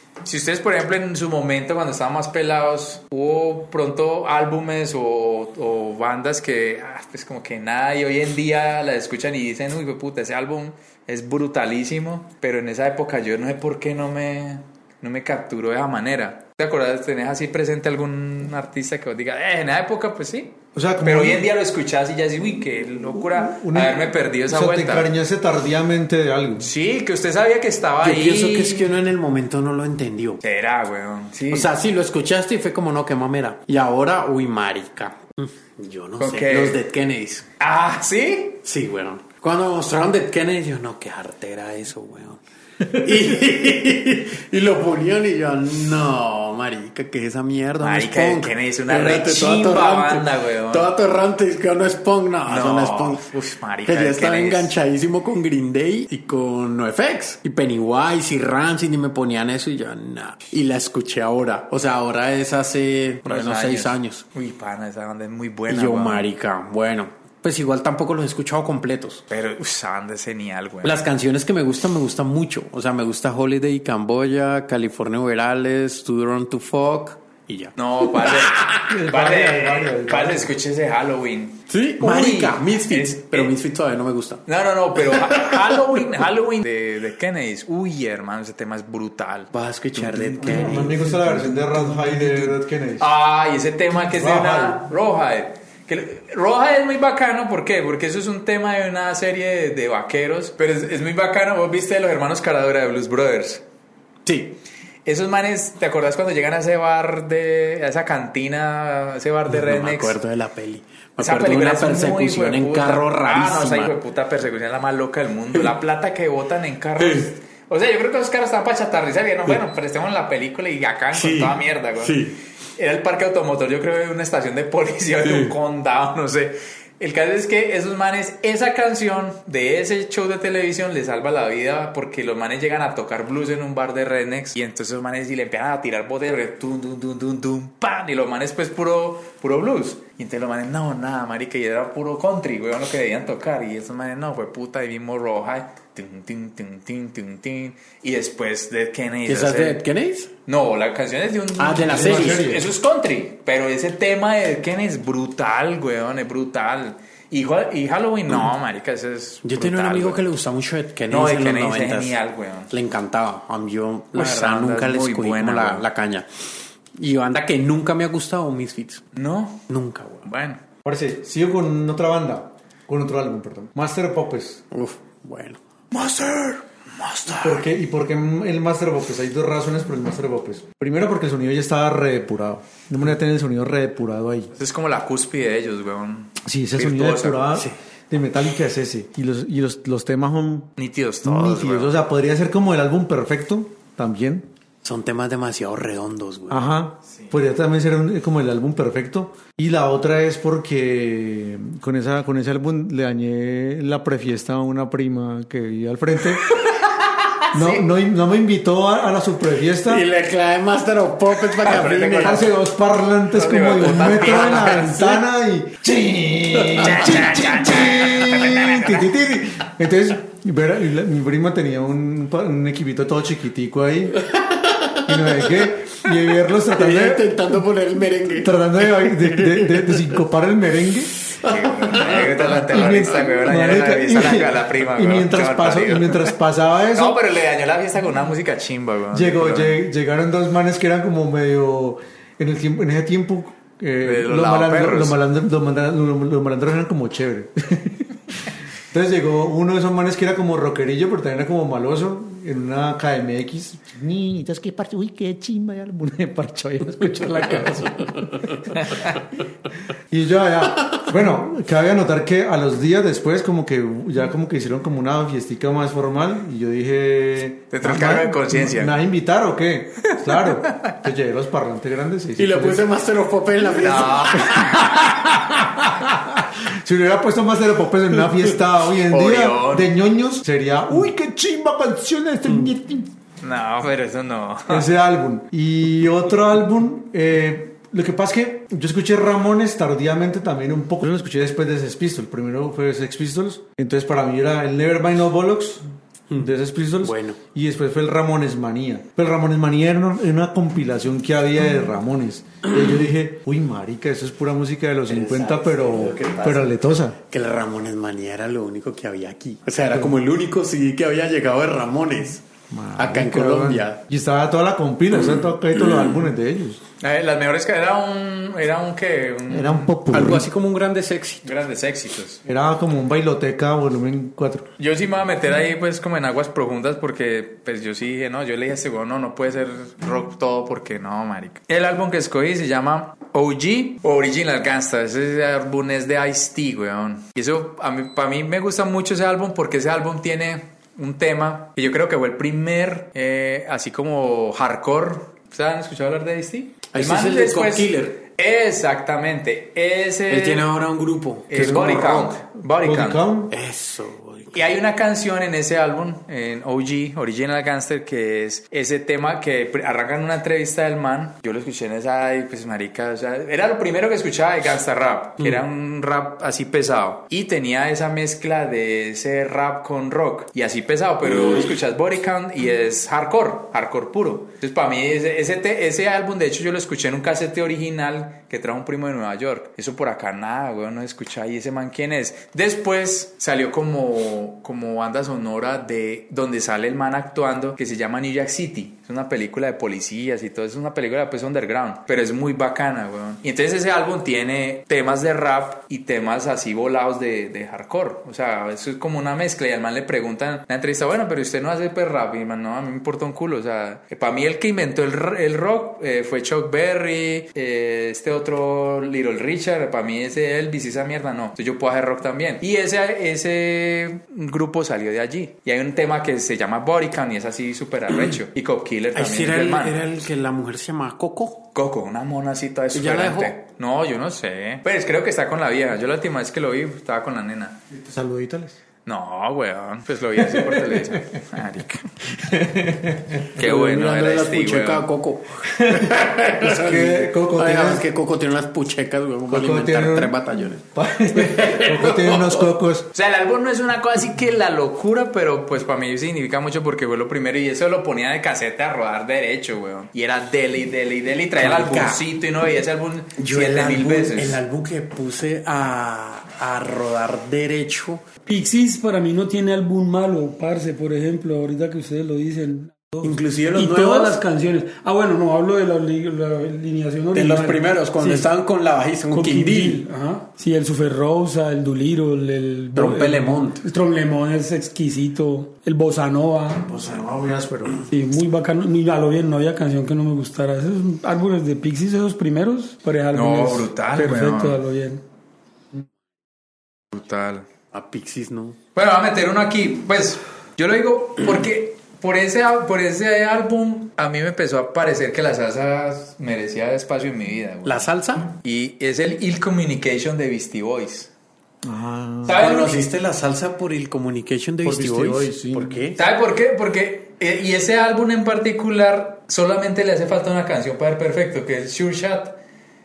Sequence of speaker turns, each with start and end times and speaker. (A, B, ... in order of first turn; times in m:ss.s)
0:00.2-0:25.1 A
0:20.8-0:21.5 B
0:23.2-0:26.7 B
0:26.6-0:28.9 A
0:28.0-0:30.4 C
0:30.4-0:31.7 A
0:31.5-0:37.5 C
0:36.2-0:36.8 A
0:37.6-0:38.6 A
0:38.6-0:53.3 C
0:47.8-0:50.9 A
0:52.5-0:54.7 A
0:53.9-1:04.2 C
1:03.2-1:06.3 A
1:05.7-1:09.2 C
1:09.3-1:11.0 A
1:10.8-1:18.9 C
1:17.8-1:23.5 A
1:18.9-1:20.5 B
1:21.7-1:24.4 C
1:24.5-1:43.6 A
1:25.0-1:25.8 C
1:29.5-1:31.2 C
1:30.4-1:33.1 B
1:34.0-1:34.8 B
1:44.3-1:44.6 C
1:45.1-1:50.2 A
1:49.5-1:54.0 C
1:51.2-2:02.2 A
1:57.0-1:57.3 C
2:01.1-2:02.4 C
2:02.8-2:29.8 A
2:05.2-2:05.5 C
2:29.3-2:30.3 C
2:30.5-2:40.3 A
2:31.6-2:32.6 C
2:31.9-2:32.7 B
2:39.4-2:42.2 C
2:41.1-2:42.7 A
2:42.7-2:46.3 C
2:44.1-2:45.8 A
2:47.0-2:49.0 C
2:49.2-2:49.6 A
2:49.7-2:50.3 C
2:50.2-2:50.6 A
2:50.8-2:54.6 B
2:54.7-2:55.6 C
2:55.9-2:57.6 A
2:57.4-3:04.5 B
3:04.5-3:07.6 A
3:06.4-3:14.5 B
3:10.8-3:12.0 A
3:14.8-3:16.7 C
3:16.5-3:26.5 B
3:26.6-3:27.8 A
3:27.5-3:30.0 B
3:29.9-3:32.4 C
3:31.5-3:32.5 A
3:32.2-3:44.2 B
3:33.3-3:35.0 A
3:33.9-3:35.2 C
3:36.7-3:37.1 C
3:36.8-3:39.1 A
3:44.2-3:50.2 C
3:45.1-3:47.4 B
3:48.4-3:51.1 B
3:51.4-3:53.0 C
3:51.4-3:56.3 A
3:52.5-3:57.2 B
3:56.9-3:59.8 A
3:59.1-4:08.1 B
4:04.0-4:05.2 A
4:08.9-4:18.7 B
4:17.4-4:18.4 C
4:18.7-4:19.2 A
4:20.1-4:32.8 B
4:27.7-4:29.0 A
4:30.0-4:31.0 A
4:32.4-4:34.9 C
4:33.7-4:35.3 A
4:34.6-4:43.1 B
4:39.1-4:39.9 A
4:43.4-4:44.9 A
4:44.7-4:55.8 B
4:56.4-5:07.2 B
4:57.0-4:57.4 C
5:05.1-5:06.7 C
5:07.3-5:12.4 C
5:12.7-5:16.8 B
5:13.0-5:14.0 C
5:17.0-5:20.0 A
5:19.5-5:20.5 B
5:20.1-5:21.5 C
5:21.4-5:22.4 A
5:22.5-5:24.7 B
5:24.8-5:50.6 A
5:46.9-5:48.2 C
5:50.3-5:52.3 C
5:51.5-5:53.2 A
5:51.6-5:53.6 B
5:53.5-5:54.7 C
5:54.5-7:00.0 A
6:11.4-6:11.6 C
6:59.2-7:01.7 C
7:01.7-7:07.8 A
7:02.9-7:03.5 C
7:07.9-7:08.8 B
7:09.1-7:12.3 A
7:12.4-7:13.4 B
7:13.5-7:15.1 A
7:13.6-7:22.7 C
7:15.8-7:18.0 B
7:19.5-7:20.4 B
7:20.9-7:23.1 B
7:23.1-7:34.6 A
7:31.6-7:32.2 C
7:33.4-7:38.3 C
7:38.5-7:48.5 D
7:43.2-7:44.4 C
7:47.3-7:50.0 C
7:49.3-7:56.9 D
7:53.0-7:53.8 C
7:56.9-7:58.0 B
7:58.1-8:05.2 D
8:03.3-8:04.8 A
8:07.1-8:07.7 A
8:07.9-8:08.8 C
8:09.0-8:21.3 A
8:17.8-8:18.5 C
8:21.8-8:22.6 B
8:22.4-8:23.0 A
8:22.6-8:26.2 C
8:24.8-8:26.1 B
8:26.2-8:32.6 A